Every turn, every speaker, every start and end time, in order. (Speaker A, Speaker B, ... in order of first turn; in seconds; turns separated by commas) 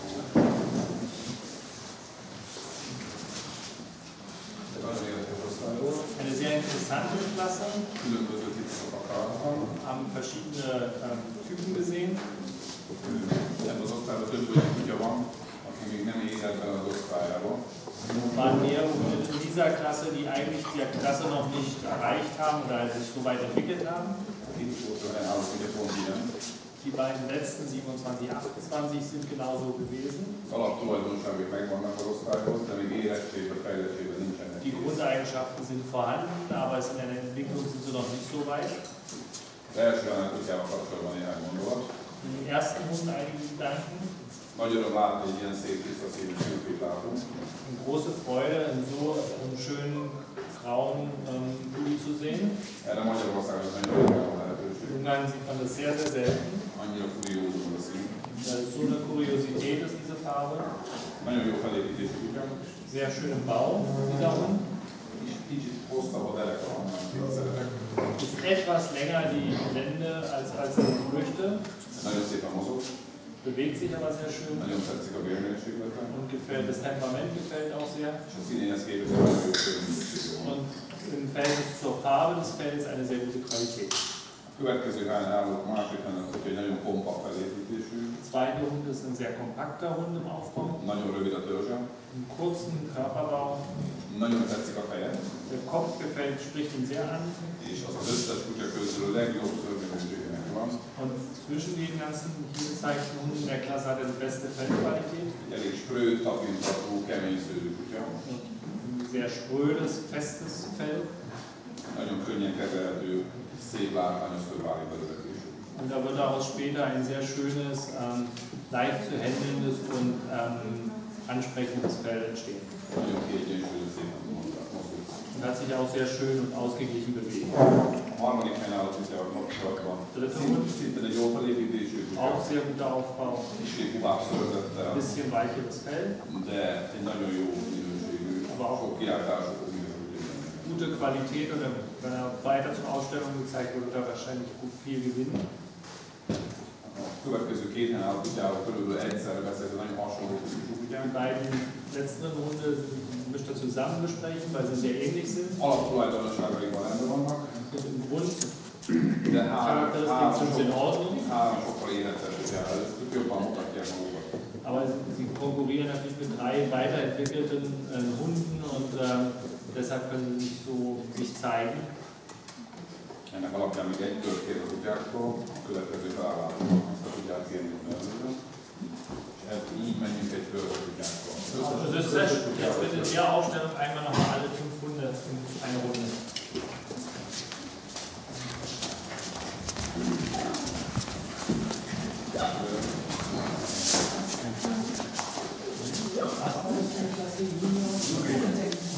Speaker A: 4.7-6.0, Speaker B: 6.0-7.9, Speaker A: 8.0-9.7, Speaker B: 9.7-12.3, Speaker A: 13.1-17.6, Speaker B: 18.2-24.2, Speaker A: 24.5-26.3, Speaker B: 26.8-30.4, Speaker A: 30.5-35.0, Speaker B: 34.6-38.8, Speaker A: 39.7-41.9, Speaker B: 42.2-44.1, Speaker A: 44.5-47.3, Speaker B: 47.6-52.6, Speaker A: 52.8-55.0, Speaker B: 54.8-56.7, Speaker A: 56.7-58.2, Speaker B: 58.4-60.7, Speaker A: 61.2-62.7, Speaker B: 62.9-64.7, Speaker A: 65.1-67.7, Speaker B: 68.2-71.6, Speaker A: 72.0-72.8, Speaker B: 73.4-74.7, Speaker A: 74.5-76.1, Speaker B: 76.1-78.2, Speaker A: 78.3-80.6, Speaker B: 80.4-84.0, Speaker A: 84.5-88.2, Speaker B: 88.2-90.8, Speaker A: 90.8-91.9, Speaker B: 92.1-93.7, Speaker A: 94.1-95.3, Speaker B: 95.5-97.5, Speaker A: 97.6-100.8, Speaker B: 101.0-105.4, Speaker A: 105.4-108.2, Speaker B: 108.2-111.1, Speaker A: 111.9-115.7, Speaker B: 115.8-122.7, Speaker A: 122.9-125.2, Speaker B: 125.3-127.6, Speaker A: 128.1-132.4, Speaker B: 130.1-130.7, Speaker B: 132.1-133.5, Speaker A: 133.6-135.1, Speaker B: 134.9-136.2, Speaker A: 136.2-140.9, Speaker B: 138.5-139.0, Speaker B: 140.6-145.4, Speaker A: 146.8-151.1, Speaker B: 151.0-155.6, Speaker A: 155.6-157.6, Speaker B: 157.7-158.5, Speaker A: 159.2-164.3, Speaker B: 159.5-161.2, Speaker B: 164.6-171.9, Speaker A: 173.3-178.4, Speaker A: 179.3-183.2, Speaker B: 181.6-186.2, Speaker B: 196.4-198.2, Speaker A: 198.1-198.5